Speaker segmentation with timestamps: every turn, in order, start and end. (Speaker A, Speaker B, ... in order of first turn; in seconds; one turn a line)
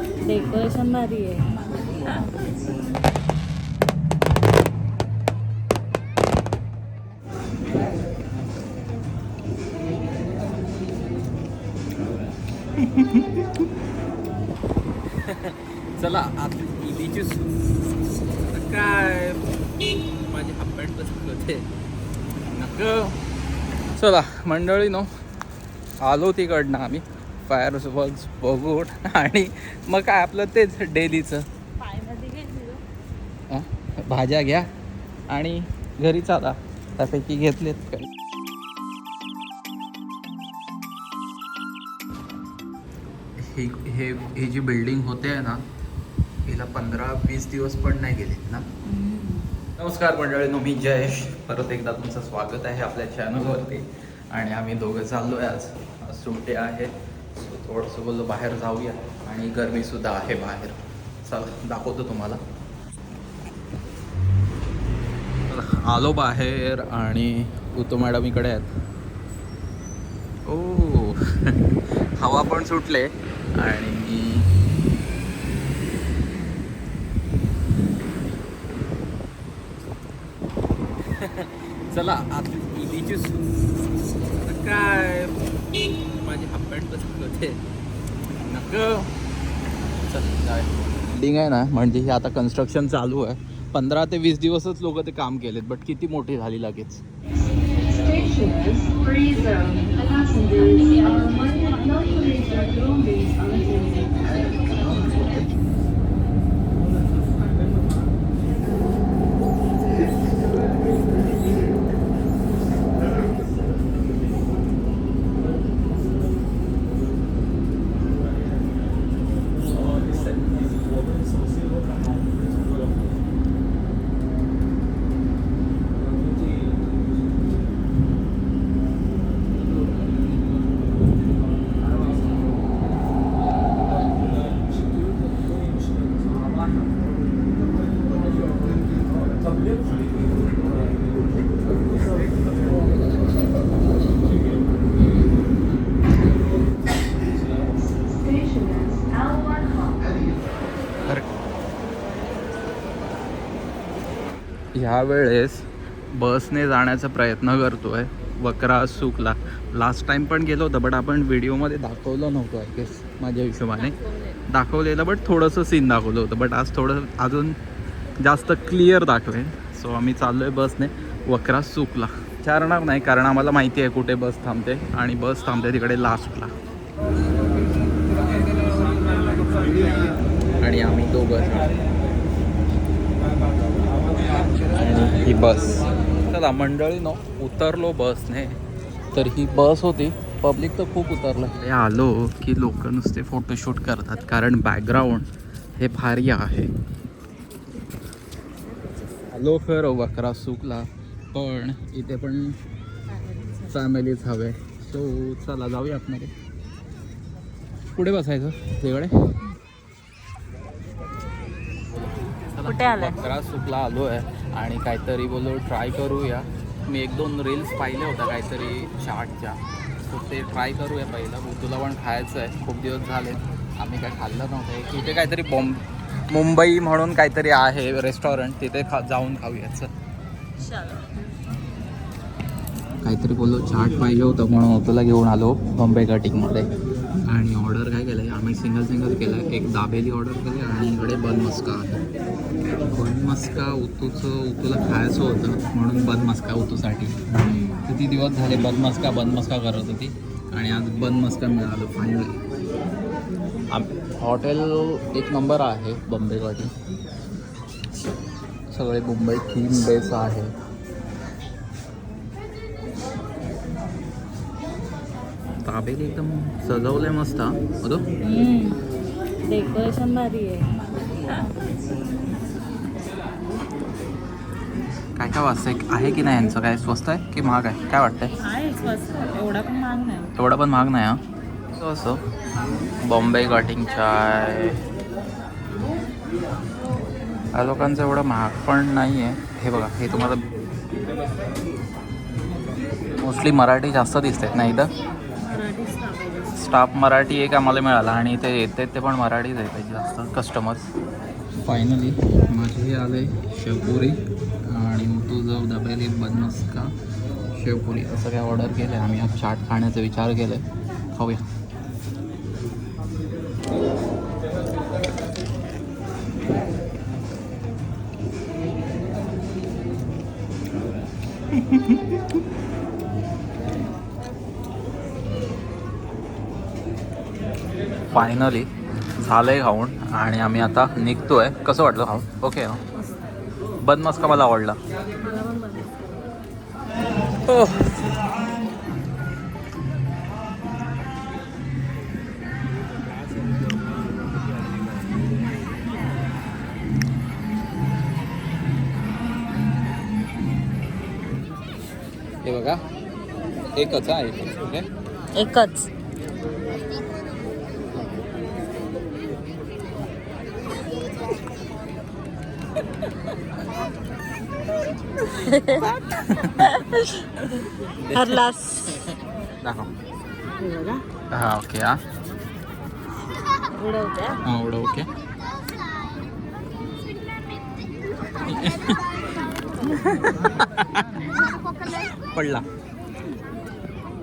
Speaker A: 0.2-1.5
Speaker B: 12.8-13.4
Speaker B: 15.1-21.6
Speaker B: 22.5-23.1
Speaker B: 23.9-25.1
Speaker B: 26.0-31.4
Speaker A: 31.8-32.8
Speaker B: 33.5-34.7
Speaker B: 35.3-38.1
Speaker B: 43.4-45.6
Speaker B: 46.5-48.6
Speaker A: 48.9-49.5
Speaker B: 49.8-62.4
Speaker B: 65.5-68.7
Speaker B: 70.5-74.5
Speaker B: 81.0-87.6
Speaker B: 88.5-89.1
Speaker B: 90.0-97.0
Speaker A: 99.7-103.2
Speaker B: 154.8-164.0
Speaker A: 163.8-164.4
Speaker B: 164.5-167.6
Speaker B: 168.2-176.5
Speaker B: 180.6-181.7
Speaker B: 184.5-188.6
Speaker B: 189.1-196.7
Speaker B: 199.3-202.6
Speaker A: 203.1-203.7
Speaker B: 203.7-206.3
Speaker B: 207.9-209.1
Speaker B: 211.9-229.9
Speaker A: 212.7-213.2
Speaker A: 230.6-231.1
Speaker B: 233.0-236.7
Speaker B: 237.3-242.0
Speaker B: 242.9-252.4
Speaker A: 247.4-247.9
Speaker B: 253.7-256.7
Speaker B: 258.7-260.5
Speaker B: 265.6-268.1
Speaker A: 268.2-268.8
Speaker A: 269.5-270.7
Speaker B: 275.2-278.4
Speaker A: 278.4-280.3
Speaker B: 280.4-281.2
Speaker B: 281.8-282.2
Speaker B: 283.0-284.8
Speaker B: 287.5-290.4
Speaker B: 293.2-294.9
Speaker A: 295.4-296.5
Speaker B: 296.6-300.9
Speaker B: 301.6-306.9
Speaker B: 307.5-311.5
Speaker B: 321.6-321.9
Speaker B: 328.1-332.8
Speaker B: 333.8-334.8
Speaker A: 335.4-335.8
Speaker B: 337.5-338.0
Speaker B: 352.4-352.8
Speaker B: 353.8-354.9
Speaker A: 355.4-355.9
Speaker A: 365.3-366.0
Speaker B: 366.1-366.7
Speaker A: 366.6-369.1
Speaker B: 367.8-368.4
Speaker B: 369.6-369.9
Speaker A: 370.6-371.1
Speaker B: 371.3-372.0
Speaker A: 373.7-374.4
Speaker B: 374.5-375.1
Speaker B: 378.4-379.1
Speaker B: 379.8-381.1
Speaker B: 382.3-382.6